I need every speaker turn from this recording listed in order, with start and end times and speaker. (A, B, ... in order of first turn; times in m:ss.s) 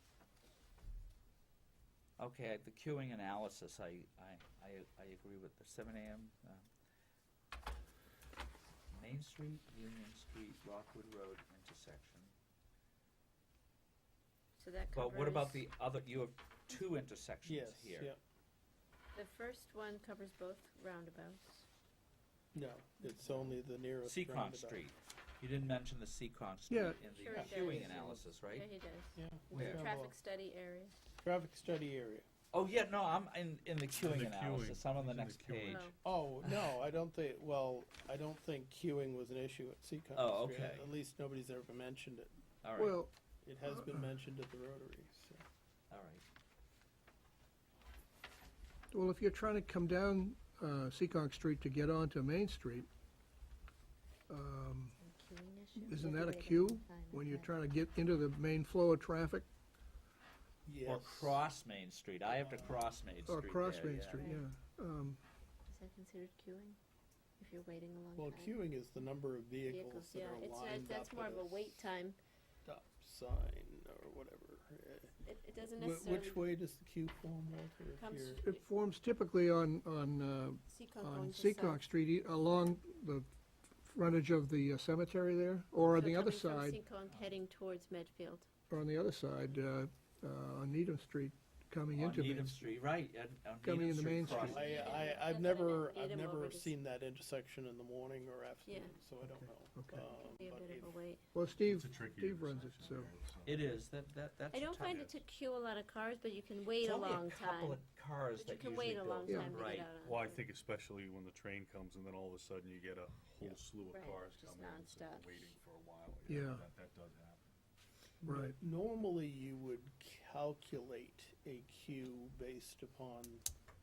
0:02.2-0:06.6 A
0:08.9-0:12.3 A
0:14.6-0:15.6 B
0:14.9-0:18.1 A
0:17.4-0:18.2 C
0:19.1-0:21.6 B
0:22.5-0:24.8 C
0:24.0-0:28.6 A
0:26.7-0:27.0 D
0:27.0-0:30.9 B
0:27.3-0:28.3 C
0:29.2-0:30.1 C
0:29.5-0:29.8 A
0:31.2-0:32.2 C
0:32.5-0:35.8 A
0:33.9-0:36.0 E
0:35.7-0:35.9 B
0:36.0-0:42.3 C
0:40.1-0:40.9 A
0:42.6-0:43.0 A
0:42.8-0:44.1 D
0:43.4-0:45.4 C
0:45.9-0:46.2 A
0:48.9-0:52.9 D
0:54.3-0:55.0 D
0:55.0-0:57.6 B
0:55.8-0:59.5 D
1:00.6-1:01.4 C
1:00.8-1:04.3 A
1:02.2-1:02.9 C
1:03.2-1:05.2 D
1:04.1-1:04.5 B
1:05.7-1:06.8 B
1:07.4-1:08.6 B
1:08.2-1:11.8 C
1:09.6-1:12.2 B
1:12.6-1:15.2 C
1:15.2-1:16.4 B
1:15.8-1:18.4 C
1:18.0-1:18.6 B
1:18.4-1:26.8 D
1:20.7-1:21.8 B
1:26.0-1:28.4 B
1:27.1-1:27.4 A
1:28.7-1:32.7 D
1:31.9-1:34.8 A
1:33.6-1:34.7 D
1:34.2-1:41.0 C
1:34.3-1:36.7 B
1:38.6-1:39.0 B
1:39.2-1:40.1 D
1:40.2-1:41.2 B
1:41.3-1:43.1 D
1:41.6-1:43.7 E
1:43.4-1:45.2 A
1:44.5-1:47.8 B
1:46.8-1:49.9 A
1:48.4-1:50.4 B
1:49.3-1:49.5 D
1:50.0-1:57.5 E
1:53.9-1:55.6 B
1:56.3-1:56.6 D
1:58.2-2:03.4 C
1:58.2-1:58.5 D